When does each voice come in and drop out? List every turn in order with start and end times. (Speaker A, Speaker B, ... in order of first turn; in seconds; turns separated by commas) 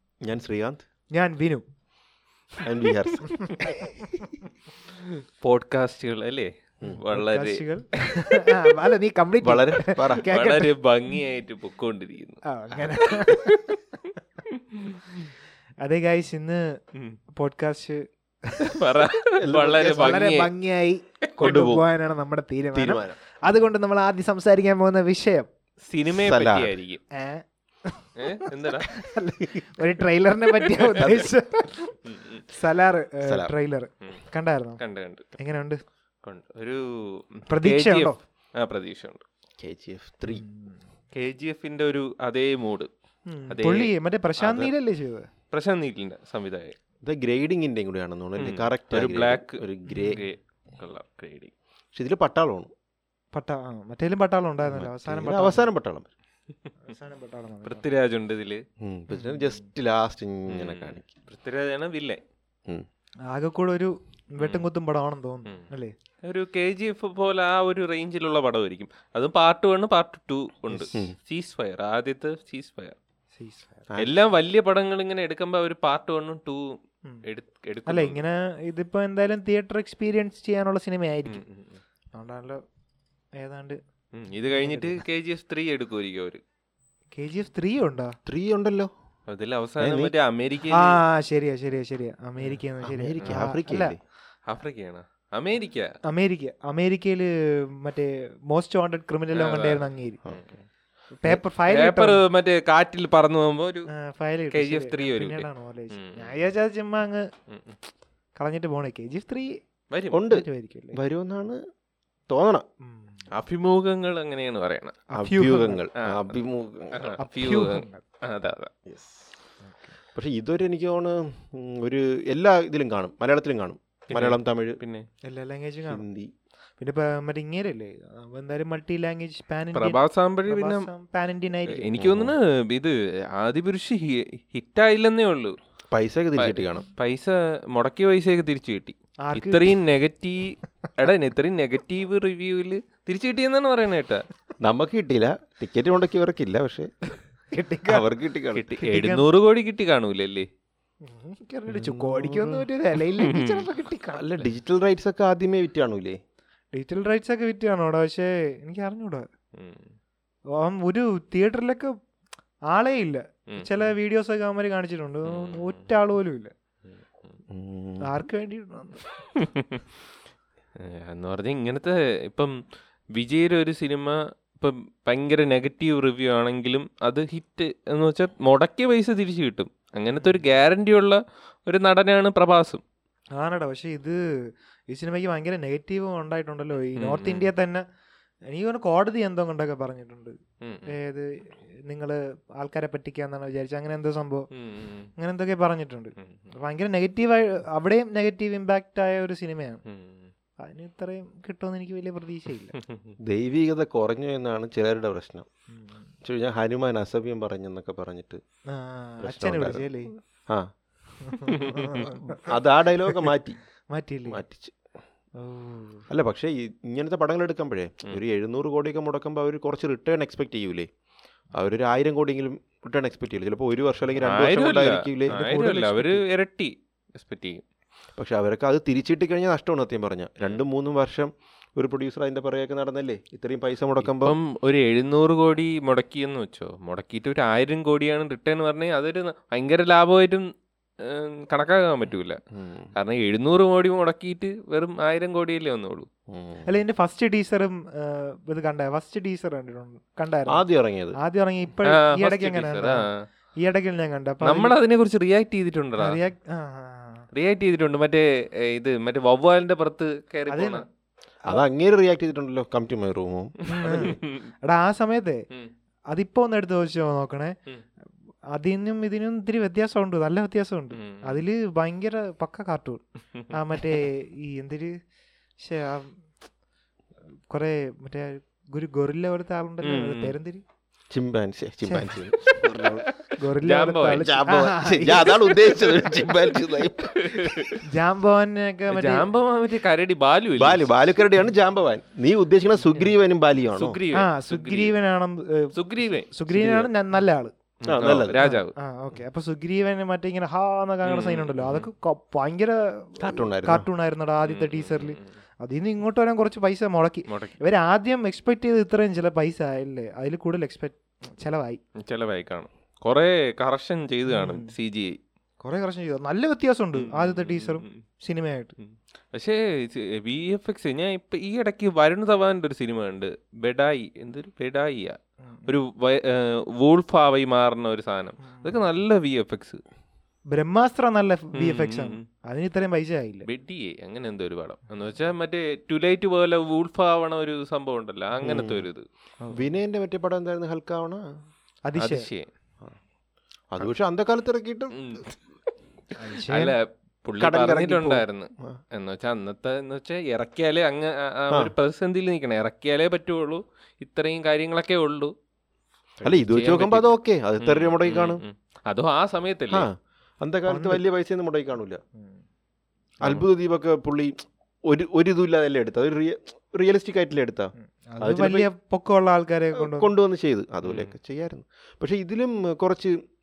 Speaker A: 0.2-0.8, Speaker B: 1.1-1.6, Speaker A: 2.6-3.5, Speaker B: 3.3-4.5, Speaker C: 5.0-7.6, Speaker B: 7.1-10.7, Speaker A: 9.4-10.3, Speaker C: 10.3-13.8, Speaker B: 12.5-13.8, Speaker C: 14.5-15.2, Speaker B: 15.8-16.8, Speaker B: 17.3-18.9, Speaker C: 18.6-20.5, Speaker A: 19.4-20.3, Speaker B: 19.9-25.5, Speaker C: 21.4-21.6, Speaker A: 21.4-21.9, Speaker A: 22.7-23.2, Speaker C: 25.9-27.0, Speaker A: 26.1-26.8, Speaker B: 27.1-32.0, Speaker C: 28.2-28.9, Speaker C: 30.7-31.2, Speaker C: 32.1-32.5, Speaker B: 32.5-34.8, Speaker A: 33.2-33.5, Speaker C: 34.8-35.2, Speaker B: 35.4-35.8, Speaker C: 36.2-39.2, Speaker B: 37.5-38.2, Speaker A: 39.6-40.4, Speaker B: 40.3-40.8, Speaker C: 41.1-42.9, Speaker B: 43.3-45.3, Speaker C: 43.5-44.7, Speaker C: 45.5-46.8, Speaker A: 47.0-50.2, Speaker C: 48.4-51.5, Speaker B: 49.9-50.2, Speaker A: 51.9-52.7, Speaker B: 53.3-55.7, Speaker A: 54.6-56.1, Speaker B: 56.9-57.9, Speaker C: 57.6-58.6, Speaker A: 58.8-61.1, Speaker B: 59.1-59.6, Speaker C: 60.5-62.2, Speaker B: 63.3-65.9, Speaker C: 64.4-64.7, Speaker C: 66.2-73.0, Speaker B: 73.3-73.8, Speaker A: 73.9-74.2, Speaker C: 74.0-78.2, Speaker B: 77.9-81.4, Speaker C: 81.3-81.8, Speaker B: 82.2-82.6, Speaker B: 83.4-83.8, Speaker C: 84.1-86.4, Speaker B: 84.5-85.0, Speaker B: 87.1-88.2, Speaker A: 88.3-88.9, Speaker C: 89.3-91.0, Speaker A: 89.8-90.1, Speaker B: 90.7-94.0, Speaker A: 92.4-94.0, Speaker C: 94.5-95.9, Speaker B: 96.1-100.2, Speaker C: 99.3-100.6, Speaker B: 101.2-102.2, Speaker C: 101.3-103.9, Speaker B: 103.9-107.3, Speaker C: 104.5-106.3, Speaker C: 107.5-107.8, Speaker B: 108.4-109.5, Speaker C: 109.9-110.2, Speaker A: 110.1-111.6, Speaker B: 110.3-111.0, Speaker A: 112.3-112.7, Speaker B: 112.8-113.3, Speaker C: 113.3-115.0, Speaker B: 115.1-115.8, Speaker A: 115.2-117.2, Speaker C: 116.0-116.4, Speaker C: 116.9-118.7, Speaker B: 117.2-118.0, Speaker A: 118.9-119.2, Speaker B: 119.6-120.0, Speaker A: 120.1-124.8, Speaker C: 124.1-125.1, Speaker B: 125.2-126.0, Speaker A: 125.9-126.3, Speaker B: 126.8-131.9, Speaker C: 129.8-130.9, Speaker C: 131.7-135.6, Speaker A: 132.0-132.3, Speaker A: 135.9-136.9, Speaker C: 136.4-144.2, Speaker B: 139.2-139.8, Speaker A: 144.6-146.9, Speaker B: 147.5-148.1, Speaker A: 147.9-148.7, Speaker C: 148.5-150.5, Speaker B: 148.8-149.3, Speaker B: 151.0-154.3, Speaker A: 151.7-152.7, Speaker C: 153.2-153.7, Speaker A: 154.2-156.2, Speaker B: 156.7-159.3, Speaker C: 159.6-159.9, Speaker B: 160.5-161.9, Speaker B: 162.7-166.5, Speaker C: 163.5-163.9, Speaker C: 165.3-165.9, Speaker C: 166.9-167.3, Speaker A: 167.5-168.1, Speaker B: 168.0-169.0, Speaker C: 169.4-169.9, Speaker C: 170.8-172.6, Speaker C: 173.1-182.8, Speaker B: 180.2-180.5, Speaker B: 183.4-184.2, Speaker B: 184.9-187.8, Speaker C: 186.9-187.5, Speaker B: 188.5-194.5, Speaker C: 190.6-190.9, Speaker C: 194.5-195.1, Speaker B: 195.2-199.8, Speaker C: 196.2-196.5, Speaker C: 199.9-200.3, Speaker B: 200.6-202.8, Speaker C: 202.7-203.2, Speaker A: 203.2-205.5, Speaker B: 205.7-206.1, Speaker A: 206.2-208.4, Speaker B: 208.7-210.1, Speaker A: 209.2-209.9, Speaker B: 211.2-212.5, Speaker C: 211.5-212.1, Speaker A: 212.0-213.6, Speaker B: 213.9-214.4, Speaker A: 214.3-214.8, Speaker B: 215.4-216.1, Speaker A: 216.1-220.9, Speaker A: 221.5-225.4, Speaker C: 224.2-227.6, Speaker B: 225.3-226.2, Speaker A: 228.2-234.4, Speaker C: 234.0-240.5, Speaker C: 241.0-242.4, Speaker A: 242.5-242.9, Speaker C: 242.9-246.1, Speaker A: 246.3-246.7, Speaker B: 246.7-250.7, Speaker A: 250.5-251.2, Speaker B: 251.2-253.1, Speaker C: 251.9-253.3, Speaker B: 253.6-254.8, Speaker C: 254.4-256.2, Speaker B: 256.0-257.3, Speaker C: 257.3-260.9, Speaker B: 260.5-260.8, Speaker A: 261.5-264.2, Speaker B: 263.7-265.4, Speaker C: 264.0-264.5, Speaker B: 266.1-267.6, Speaker B: 268.5-274.9, Speaker C: 270.9-271.4, Speaker B: 275.6-276.2, Speaker B: 277.5-280.6, Speaker C: 279.8-280.4, Speaker A: 281.1-283.1, Speaker B: 281.9-282.6, Speaker C: 282.5-284.3, Speaker B: 283.4-285.5, Speaker A: 284.1-287.8, Speaker C: 285.5-286.6, Speaker C: 287.1-287.8, Speaker B: 287.8-289.3, Speaker C: 288.9-290.9, Speaker A: 290.6-294.0, Speaker C: 293.7-294.9, Speaker B: 294.1-295.8, Speaker C: 295.8-296.3, Speaker B: 296.3-297.5, Speaker A: 296.5-296.9, Speaker C: 297.8-298.8, Speaker A: 297.9-298.5, Speaker B: 298.3-311.8, Speaker C: 301.1-301.9, Speaker A: 303.2-303.9, Speaker C: 304.4-305.3, Speaker C: 307.3-307.6, Speaker C: 312.0-315.2, Speaker B: 314.3-314.7, Speaker B: 315.6-318.8, Speaker C: 316.9-318.0, Speaker C: 318.8-329.8, Speaker B: 325.5-325.7, Speaker B: 328.5-328.8, Speaker B: 330.5-333.5, Speaker C: 331.6-332.2, Speaker C: 333.5-339.0, Speaker A: 338.4-338.9, Speaker B: 339.4-339.7, Speaker A: 339.5-341.2, Speaker B: 341.9-342.3, Speaker C: 342.0-342.5, Speaker A: 343.7-345.0, Speaker C: 344.9-345.4, Speaker B: 346.1-346.8, Speaker C: 346.5-355.3, Speaker A: 347.4-348.8, Speaker C: 356.2-359.9, Speaker A: 356.2-358.4, Speaker A: 359.7-362.0, Speaker B: 360.7-361.0, Speaker A: 363.2-364.4, Speaker A: 364.9-368.7, Speaker B: 367.9-370.1, Speaker A: 369.8-373.2, Speaker C: 370.8-371.1